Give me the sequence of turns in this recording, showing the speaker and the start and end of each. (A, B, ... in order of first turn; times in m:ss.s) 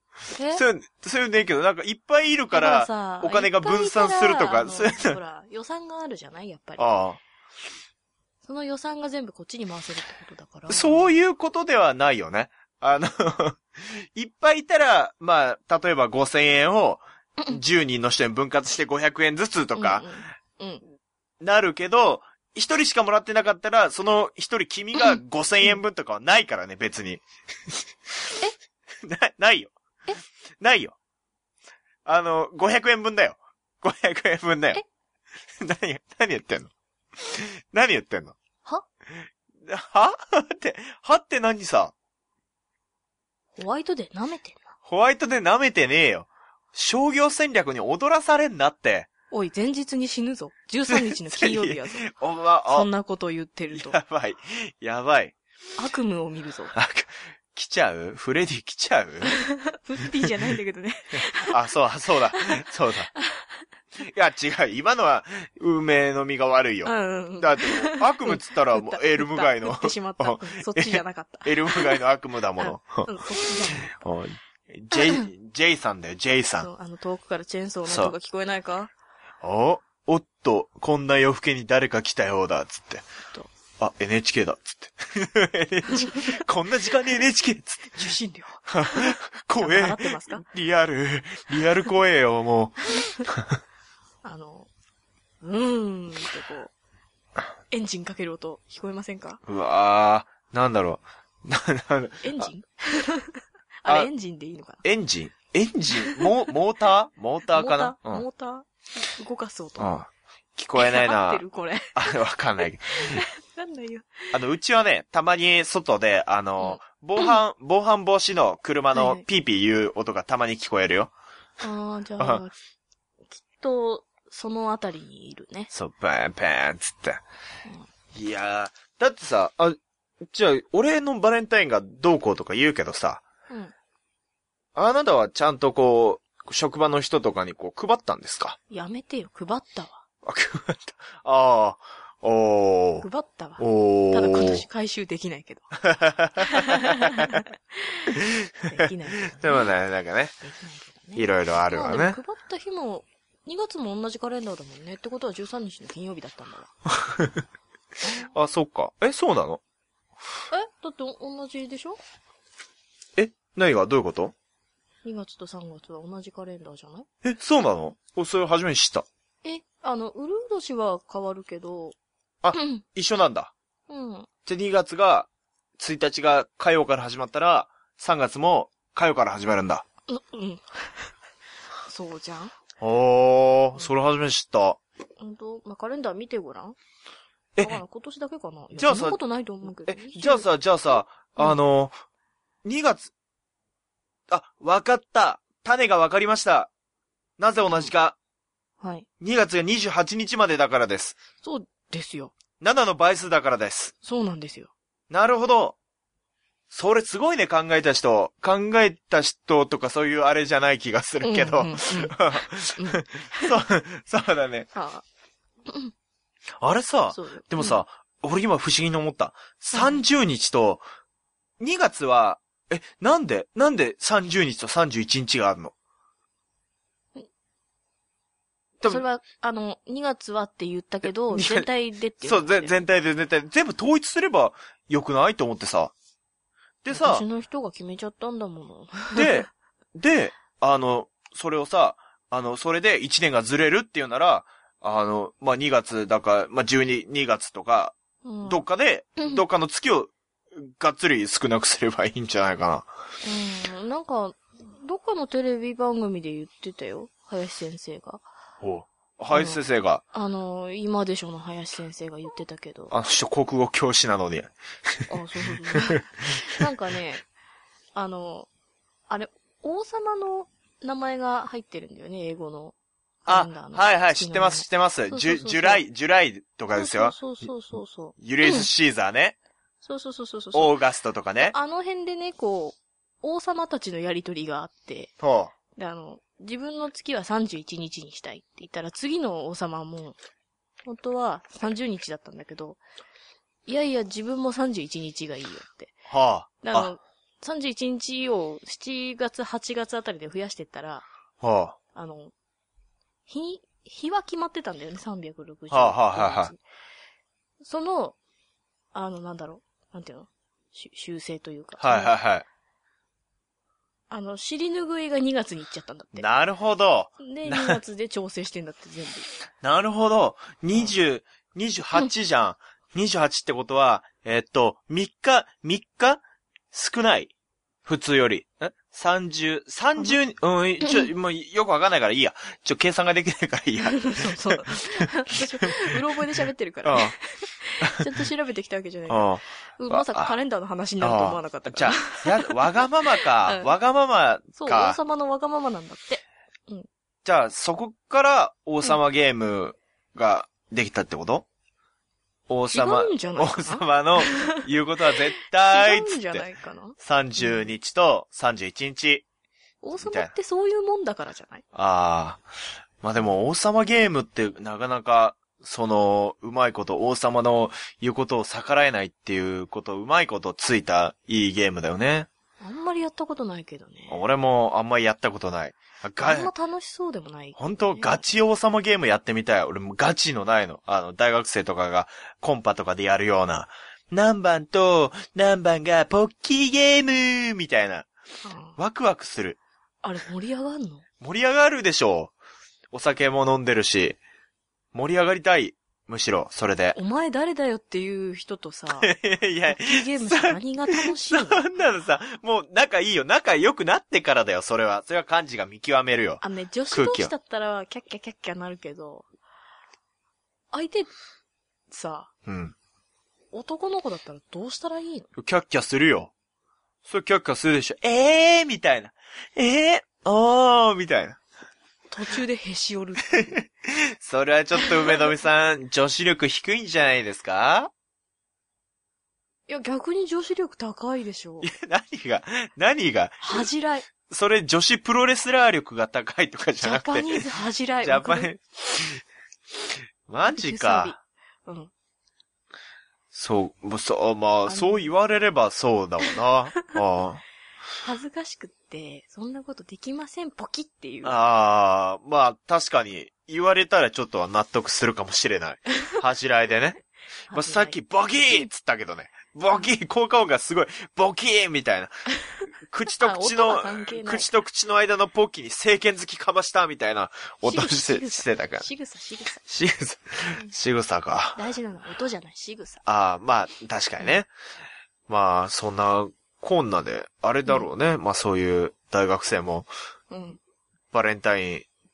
0:00.3-0:00.6 A
0:00.5-0:05.2 B
0:02.5-0:06.9 A
0:06.8-0:07.2 B
0:08.4-0:11.2 A
0:10.7-0:20.1 B
0:19.7-0:20.8 A
0:21.4-0:28.3 B
0:29.0-0:29.7 B
0:30.6-0:31.0 B
0:32.0-0:34.8 B
0:35.6-0:38.4 B
0:39.1-0:41.9 B
0:43.6-0:44.7 A
0:44.8-0:49.1 B
0:49.3-0:52.1 A
0:50.9-0:52.9 B
0:52.7-0:54.0 A
0:53.7-0:55.4 B
0:55.8-0:56.7 A
0:56.7-0:59.3 B
0:59.2-1:01.5 A
1:01.5-1:03.1 B
1:02.4-1:02.6 A
1:03.1-1:03.6 A
1:04.0-1:16.7 B
1:06.8-1:12.0 A
1:12.6-1:14.0 A
1:14.9-1:15.3 A
1:16.6-1:18.9 A
1:17.9-1:18.1 B
1:19.4-1:23.0 B
1:23.8-1:28.1 B
1:25.9-1:26.4 A
1:27.9-1:30.4 A
1:28.7-1:33.6 B
1:32.9-1:33.2 A
1:34.2-1:34.7 A
1:35.4-1:36.7 A
1:37.7-1:39.4 A
1:39.5-1:42.5 B
1:42.2-1:44.8 A
1:44.8-1:48.2 B
1:45.9-1:46.3 A
1:47.5-1:50.0 A
1:49.8-1:51.4 B
1:50.8-1:52.2 A
1:51.9-1:53.2 B
1:52.9-1:54.3 A
1:54.3-2:01.1 B
1:56.6-1:57.4 A
1:58.9-1:59.2 A
2:01.6-2:02.5 A
2:03.3-2:05.7 A
2:05.7-2:07.2 B
2:08.1-2:13.2 B
2:14.7-2:18.6 B
2:18.7-2:20.0 A
2:20.2-2:23.1 B
2:23.0-2:25.8 A
2:23.6-2:24.6 B
2:25.8-2:27.4 B
2:26.4-2:29.7 A
2:28.1-2:30.4 B
2:30.4-2:36.7 A
2:31.2-2:32.2 B
2:37.0-2:37.4 B
2:38.0-2:38.3 A
2:38.2-2:39.6 B
2:40.5-2:42.0 A
2:43.2-2:44.3 B
2:45.0-2:47.1 A
2:47.2-2:49.0 B
2:49.4-2:52.0 A
2:52.4-2:53.5 B
2:52.5-2:52.8 A
2:53.9-2:54.3 A
2:54.4-2:55.3 B
2:55.8-2:59.8 B
3:00.1-3:01.1 A
3:01.8-3:02.5 A
3:02.8-3:04.8 B
3:05.2-3:06.8 A
3:07.6-3:10.5 A
3:08.7-3:09.2 B
3:09.8-3:12.0 B
3:12.6-3:13.1 B
3:14.3-3:16.7 B
3:17.4-3:18.2 B
3:18.8-3:19.1 A
3:19.2-3:21.2 B
3:21.4-3:22.3 A
3:22.6-3:23.9 B
3:24.0-3:24.7 A
3:25.1-3:25.8 B
3:26.7-3:34.7 B
3:31.2-3:33.6 A
3:34.7-3:35.0 A
3:35.6-3:35.9 A
3:36.6-3:40.8 B
3:37.1-3:37.8 A
3:39.7-3:40.0 A
3:41.6-3:45.7 B
3:48.8-3:52.8 A
3:51.3-3:51.7 B
3:52.2-3:55.9 B
3:56.8-3:57.2 B
3:56.9-3:59.4 A
3:59.1-4:12.9 B
4:08.2-4:08.6 A
4:09.2-4:09.4 A
4:13.2-4:18.2 A
4:18.6-4:20.0 B
4:19.3-4:19.6 A
4:20.1-4:22.9 A
4:22.9-4:26.7 B
4:25.1-4:27.2 A
4:27.9-4:28.5 A
4:29.1-4:35.8 A
4:33.3-4:37.2 B
4:36.7-4:38.7 A
4:38.2-4:39.4 B
4:39.8-4:40.8 A
4:40.5-4:41.5 B
4:41.4-4:45.1 A
4:45.2-4:45.5 B
4:45.7-4:50.2 A
4:50.8-4:52.8 A
4:53.6-4:55.9 A
4:56.1-4:56.9 B
4:56.6-5:01.0 A
5:01.4-5:01.8 B
5:01.9-5:02.3 A
5:03.3-5:06.6 A
5:05.7-5:06.5 B
5:07.6-5:08.2 A
5:08.9-5:12.1 A
5:11.8-5:12.4 B
5:14.1-5:16.2 A
5:16.1-5:17.8 B
5:17.2-5:19.3 A
5:19.6-5:27.3 B
5:27.8-5:36.0 B
5:33.8-5:43.7 A
5:36.8-5:37.2 B
5:37.8-5:38.1 B
5:39.1-5:40.3 B
5:41.0-5:45.0 B
5:44.5-5:46.9 A
5:47.2-5:51.4 B
5:52.5-5:56.5 B
5:52.7-5:57.7 A
5:57.0-5:59.2 B
5:59.8-6:01.6 A
6:00.0-6:00.3 B
6:01.7-6:02.4 B
6:03.0-6:12.3 B
6:12.6-6:14.2 A
6:14.1-6:16.5 B
6:16.2-6:18.2 A
6:17.6-6:28.1 B
6:28.4-6:28.8 A
6:28.8-6:29.6 B
6:30.0-6:31.0 A
6:31.2-6:32.3 B
6:32.9-6:34.2 B
6:34.9-6:37.0 B
6:36.9-6:39.1 A
6:39.0-6:47.3 B
6:39.7-6:41.7 A
6:46.4-6:49.3 A
6:50.7-6:51.1 A
6:51.9-6:52.3 A
6:52.4-6:52.7 B
6:53.5-6:55.3 A
6:55.4-6:56.3 B
6:57.0-7:01.4 B
7:02.1-7:03.6 A
7:03.3-7:07.9 B
7:04.7-7:05.2 A
7:09.7-7:11.7 A
7:11.6-7:13.7 B
7:13.4-7:14.1 A
7:14.2-7:17.4 B
7:16.8-7:18.5 A
7:18.0-7:19.2 B
7:19.8-7:21.1 B
7:20.4-7:21.9 A
7:23.3-7:27.4 B
7:24.7-7:25.1 A
7:28.0-7:31.4 A
7:31.2-7:42.2 B
7:37.5-7:38.0 A
7:42.8-7:48.9 B
7:43.2-7:44.5 A
7:47.6-7:49.6 A
7:49.6-7:51.6 B
7:51.6-7:53.0 A
7:53.0-7:54.5 B
7:55.3-7:59.9 B
8:00.3-8:00.6 A
8:01.1-8:01.8 B